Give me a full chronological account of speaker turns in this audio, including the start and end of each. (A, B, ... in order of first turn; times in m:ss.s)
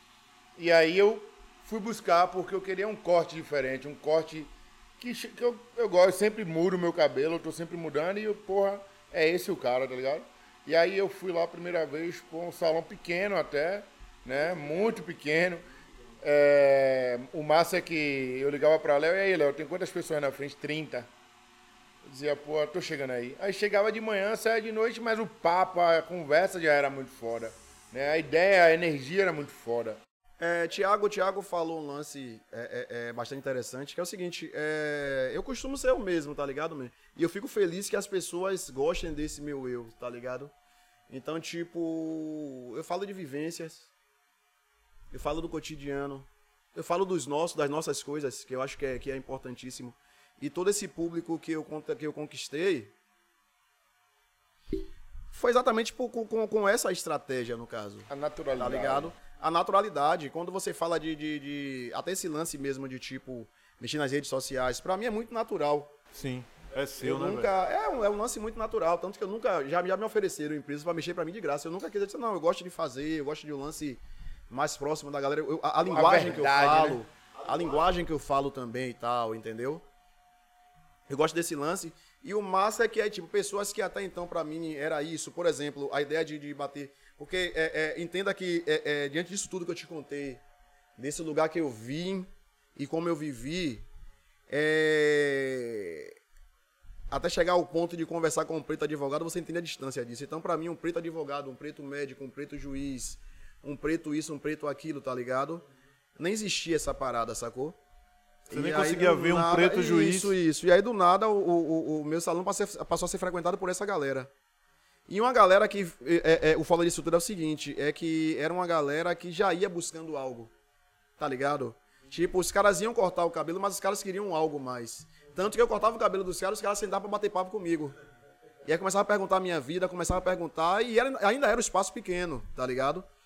0:00.6-0:15.6 A
0:16.2-0:21.1 A
0:22.0-0:30.0 A
0:30.4-0:40.5 B
0:41.1-0:43.9 B
0:45.1-0:52.9 B
0:55.3-0:58.1 B
0:58.1-0:59.1 A
0:58.6-1:05.9 B
1:06.1-1:07.5 C
1:07.0-1:19.8 B
1:16.0-1:17.0 A
1:21.1-1:30.4 B
1:31.0-1:33.9 B
1:34.5-1:36.2 B
1:37.1-1:45.6 B
1:46.2-1:47.8 B
1:48.5-1:54.3 B
1:48.5-1:50.4 C
1:55.1-2:00.5 B
2:01.2-2:08.0 B
2:08.6-2:13.1 B